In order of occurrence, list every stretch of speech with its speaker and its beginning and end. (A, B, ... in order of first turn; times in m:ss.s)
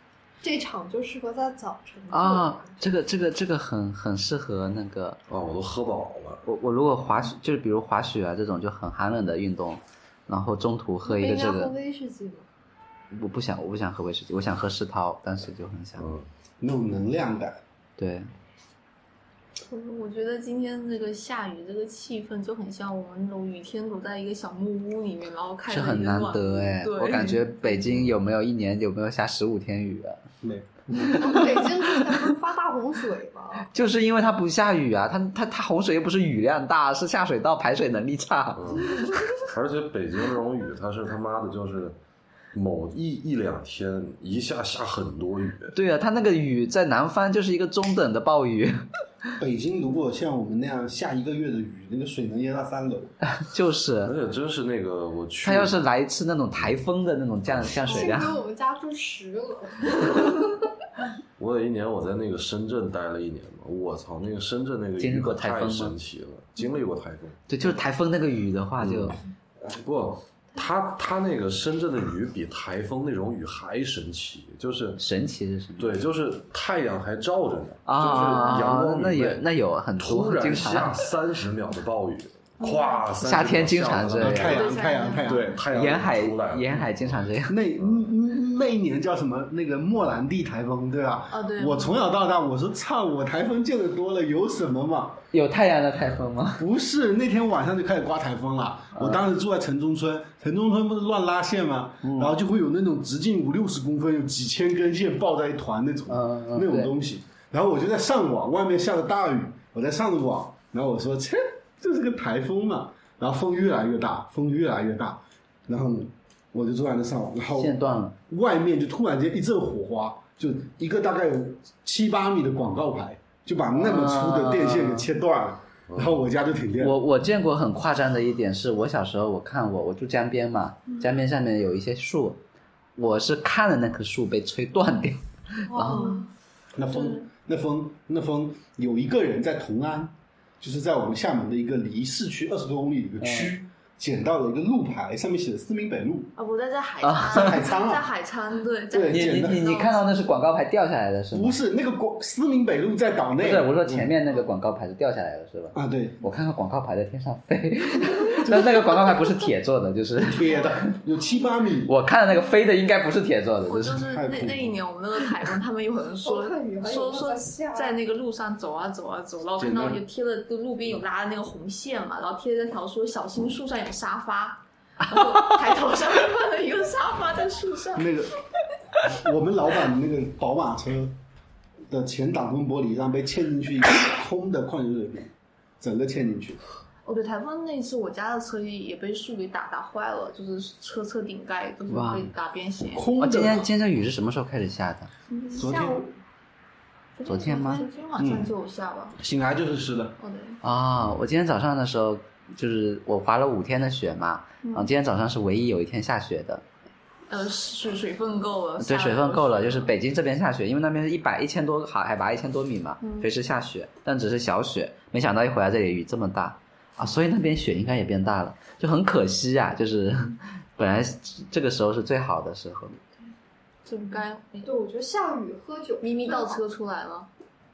0:00.4-0:02.8 A
0:02.1-0:05.2 B
0:05.3-0:06.4 C
0:06.5-0:11.7 B
0:11.0-0:12.4 A
0:13.1-0:16.1 B
0:16.0-0:16.3 C
0:16.6-0:17.6 D
0:18.0-0:18.3 B
0:19.7-0:27.7 E
0:25.7-0:30.2 B
0:30.4-0:30.9 D
0:30.9-0:32.2 B
0:31.0-0:33.7 A
0:33.7-0:39.2 B
0:38.6-0:42.0 C
0:42.5-0:45.7 C
0:45.7-0:48.8 B
0:49.4-0:53.2 D
0:53.4-0:54.1 B
0:54.0-0:55.8 C
0:55.4-0:58.4 B
0:57.9-1:00.6 A
1:01.4-1:07.4 C
1:05.0-1:06.0 B
1:07.5-1:09.2 B
1:08.8-1:15.0 C
1:15.0-1:16.0 B
1:15.8-1:19.5 C
1:17.9-1:21.0 B
1:20.0-1:27.2 C
1:22.6-1:23.0 E
1:23.2-1:24.6 B
1:24.2-1:25.6 D
1:24.4-1:25.5 E
1:25.7-1:27.6 B
1:27.5-1:35.2 D
1:31.3-1:32.1 E
1:35.3-1:36.6 B
1:36.6-1:57.8 D
1:39.0-1:39.2 B
1:42.0-1:42.3 B
1:46.1-1:46.9 B
1:57.6-1:58.2 B
1:58.3-2:07.0 D
2:03.7-2:05.1 B
2:06.8-2:12.4 B
2:13.0-2:16.2 B
2:15.7-2:16.3 E
2:15.8-2:16.2 A
2:16.8-2:26.3 D
2:16.9-2:17.2 E
2:23.2-2:23.5 B
2:26.4-2:30.1 E
2:27.0-2:27.5 B
2:27.3-2:28.1 D
2:28.9-2:29.6 D
2:29.1-2:31.6 B
2:31.3-2:34.1 D
2:33.4-2:40.8 B
2:35.7-2:36.2 D
2:38.4-2:39.2 D
2:40.2-2:41.9 D
2:41.9-2:44.0 B
2:43.7-2:58.1 E
2:44.0-2:44.8 D
2:46.2-2:48.0 A
2:49.6-2:50.0 D
2:58.0-2:58.4 D
2:59.0-3:01.2 D
3:01.9-3:06.6 D
3:07.0-3:13.1 E
3:11.9-3:12.3 B
3:12.9-3:13.7 D
3:13.2-3:15.1 B
3:15.3-3:16.1 E
3:15.6-3:16.1 D
3:17.2-3:19.2 E
3:17.2-3:17.9 B
3:18.2-3:18.5 D
3:19.2-3:20.2 D
3:20.2-3:20.6 E
3:20.6-3:26.6 B
3:24.6-3:24.9 E
3:27.3-3:29.9 E
3:28.8-3:43.0 B
3:33.0-3:33.3 E
3:43.9-3:44.7 E
3:44.6-3:46.6 A
3:46.0-3:47.3 E